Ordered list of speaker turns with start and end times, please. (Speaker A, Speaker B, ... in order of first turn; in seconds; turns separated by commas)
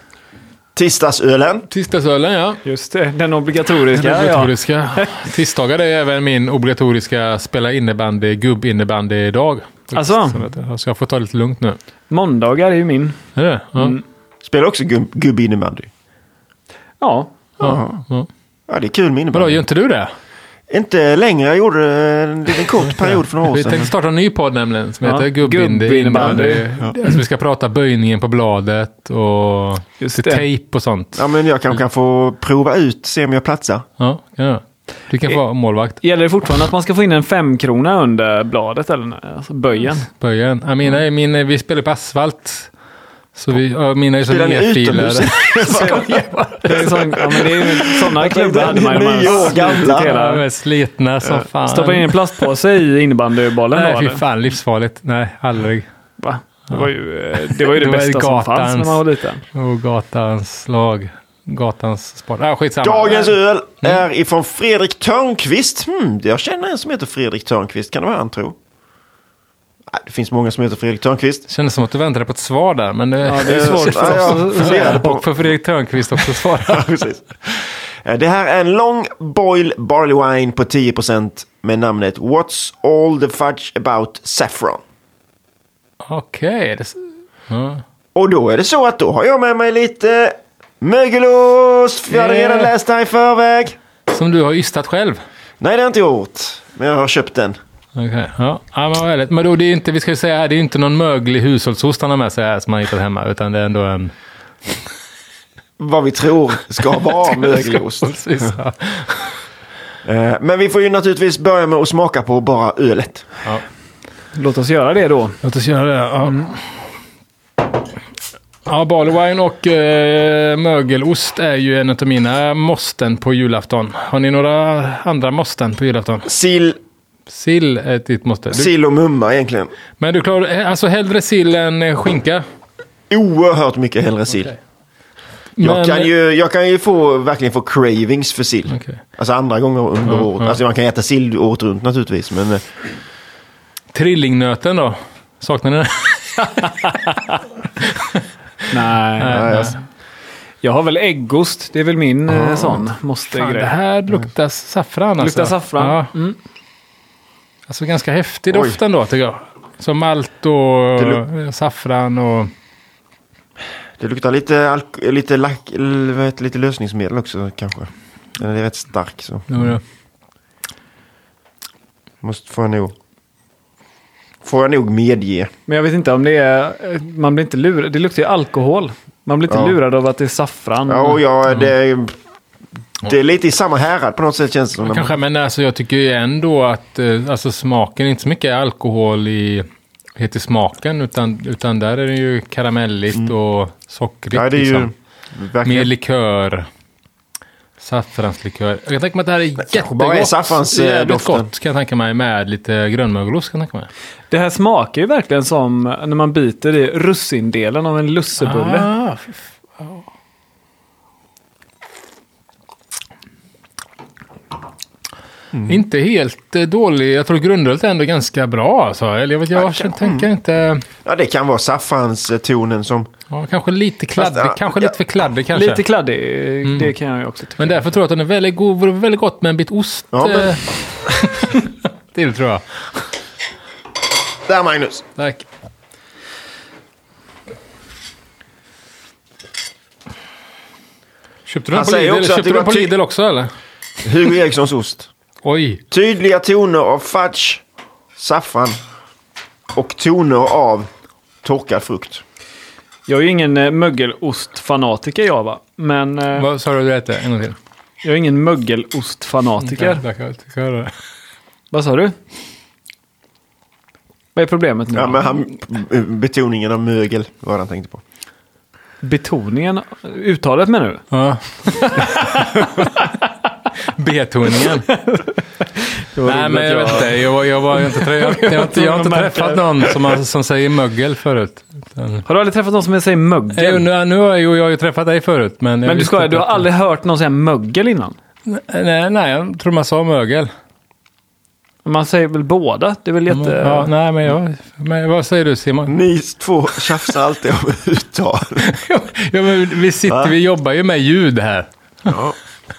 Speaker A: 0.7-1.7, Speaker B: 1.7-2.6, Speaker C: 2.6-5.1, Speaker B: 3.9-11.8, Speaker C: 9.9-10.4, Speaker C: 12.1-13.2, Speaker B: 13.3-14.0, Speaker C: 13.7-14.0, Speaker A: 14.4-15.9, Speaker C: 17.0-17.4, Speaker B: 17.6-18.3, Speaker A: 17.6-18.0, Speaker A: 18.7-19.6, Speaker B: 19.3-20.1, Speaker A: 20.7-23.9, Speaker B: 22.9-31.2, Speaker C: 25.0-27.1, Speaker C: 30.0-30.4, Speaker A: 31.1-33.9, Speaker B: 34.0-36.0, Speaker C: 36.0-40.1, Speaker B: 40.1-42.7, Speaker B: 43.3-47.0, Speaker A: 44.2-46.1, Speaker C: 45.7-50.4, Speaker A: 47.4-50.1, Speaker B: 49.2-52.2, Speaker C: 51.2-54.2, Speaker B: 53.7-55.9, Speaker C: 56.2-59.4, Speaker B: 57.6-59.0, Speaker B: 59.5-64.0, Speaker A: 62.8-68.5, Speaker A: 69.9-71.5, Speaker B: 71.5-76.9, Speaker C: 73.2-75.2, Speaker A: 73.4-75.2, Speaker A: 76.7-84.8, Speaker B: 86.0-87.8, Speaker A: 88.1-93.8, Speaker B: 92.1-92.7, Speaker B: 94.1-95.2, Speaker A: 95.6-97.6, Speaker B: 98.0-104.1, Speaker A: 105.8-108.5, Speaker B: 107.2-109.4, Speaker A: 110.0-113.4, Speaker C: 114.3-115.4, Speaker B: 115.4-116.6, Speaker B: 118.6-126.3, Speaker A: 126.3-126.8, Speaker B: 127.3-128.7, Speaker A: 128.5-129.7, Speaker B: 130.0-132.4, Speaker A: 133.1-134.5, Speaker B: 135.6-136.1, Speaker A: 135.6-142.6, Speaker B: 138.7-139.0, Speaker B: 140.1-140.6, Speaker B: 143.9-146.9, Speaker C: 148.7-149.4, Speaker B: 149.2-149.8, Speaker A: 149.3-149.8, Speaker C: 150.6-153.7, Speaker A: 152.3-152.7, Speaker B: 153.3-156.1, Speaker C: 155.2-156.3, Speaker B: 157.7-162.5, Speaker A: 158.5-158.8, Speaker A: 161.0-161.2, Speaker A: 164.0-169.7, Speaker B: 169.5-169.8, Speaker A: 172.2-172.9, Speaker A: 174.4-175.5, Speaker C: 175.7-181.2, Speaker A: 179.5-179.8, Speaker A: 180.9-182.1, Speaker B: 181.5-181.7, Speaker A: 183.0-185.1, Speaker B: 184.8-189.6, Speaker B: 190.2-194.9, Speaker A: 194.3-195.9, Speaker B: 195.6-196.6, Speaker B: 197.8-203.9, Speaker A: 199.6-201.5, Speaker C: 204.3-208.9, Speaker B: 208.4-210.0, Speaker B: 215.6-220.8, Speaker A: 219.5-220.3, Speaker A: 221.0-223.1, Speaker B: 223.3-225.8, Speaker A: 224.2-224.9, Speaker C: 225.5-227.9, Speaker B: 226.6-226.9, Speaker B: 227.6-232.6, Speaker A: 230.1-230.6, Speaker A: 234.5-235.0, Speaker B: 235.2-235.4, Speaker B: 241.4-243.5, Speaker A: 241.7-242.9, Speaker A: 244.0-245.1, Speaker B: 245.4-245.8, Speaker A: 245.9-247.6, Speaker A: 248.2-248.8, Speaker A: 249.7-250.9, Speaker A: 251.4-252.2, Speaker C: 253.1-256.5, Speaker B: 256.4-257.6, Speaker C: 258.0-260.0, Speaker B: 259.6-260.9, Speaker C: 261.7-262.1, Speaker C: 264.3-265.3, Speaker A: 264.9-268.0, Speaker C: 269.0-271.0, Speaker B: 271.1-273.0, Speaker C: 271.7-273.1, Speaker B: 273.9-275.0, Speaker C: 275.0-280.2, Speaker B: 276.2-282.2, Speaker C: 282.2-283.8, Speaker B: 283.6-286.7, Speaker C: 285.8-288.2, Speaker B: 288.4-290.5, Speaker C: 291.8-293.9, Speaker B: 293.3-295.9, Speaker A: 295.9-298.6, Speaker B: 298.6-301.7, Speaker A: 300.1-300.3, Speaker A: 302.1-302.4